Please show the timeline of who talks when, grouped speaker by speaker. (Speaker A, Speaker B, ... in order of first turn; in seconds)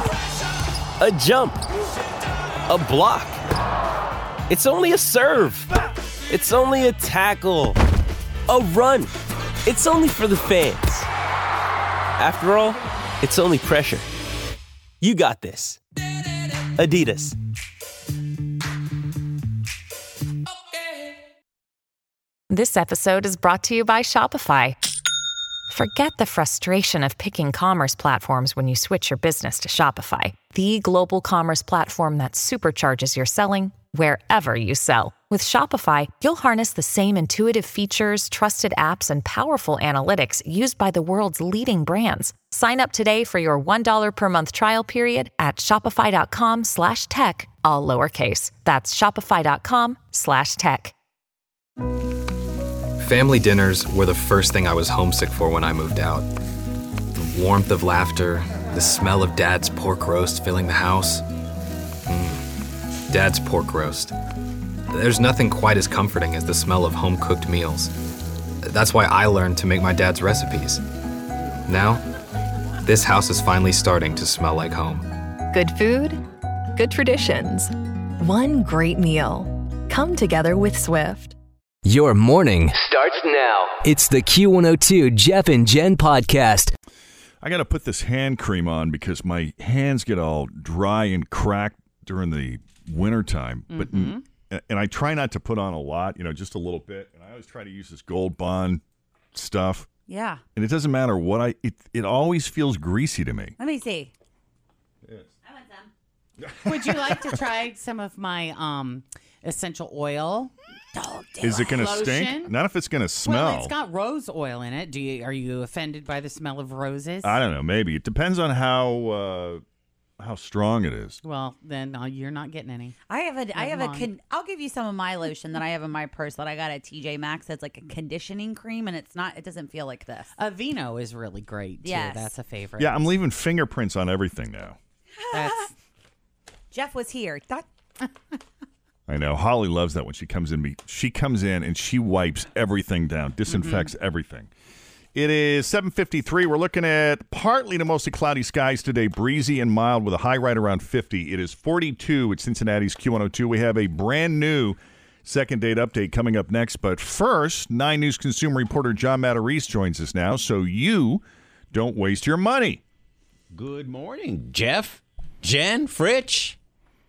Speaker A: 1.0-1.6, 2.7-3.4, 4.5-5.7, 6.3-7.8, 8.5-9.1, 9.6-11.1, 12.2-14.1, 15.0-15.8, 16.8-17.3
Speaker B: 22.5-24.8, 25.7-50.9
Speaker C: 53.0-56.3, 57.1-61.2, 62.1-62.4, 63.1-64.1, 64.9-67.9, 68.6-70.8, 71.7-72.0, 72.8-75.0
Speaker D: 75.5-76.2, 76.7-81.3
Speaker E: 81.8-82.8, 83.8-86.7
Speaker F: 87.4-98.8, 99.3-99.9, 100.5-103.5, 106.5-107.2, 111.4-113.7, 117.2-119.6, 120.2-121.2, 132.8-134.8, 139.1-144.5, 145.1-162.8
Speaker G: 93.7-94.2, 106.6-110.5, 111.6-112.5, 113.2-117.4, 121.2-122.9, 123.5-124.1, 130.4-133.0, 135.3-135.7, 143.5-143.9
Speaker H: 100.1-100.4, 103.6-104.1, 105.4-105.9, 110.9-111.8, 123.1-130.3, 131.8-132.3, 135.2-135.7, 136.7-137.6
Speaker I: 163.5-166.6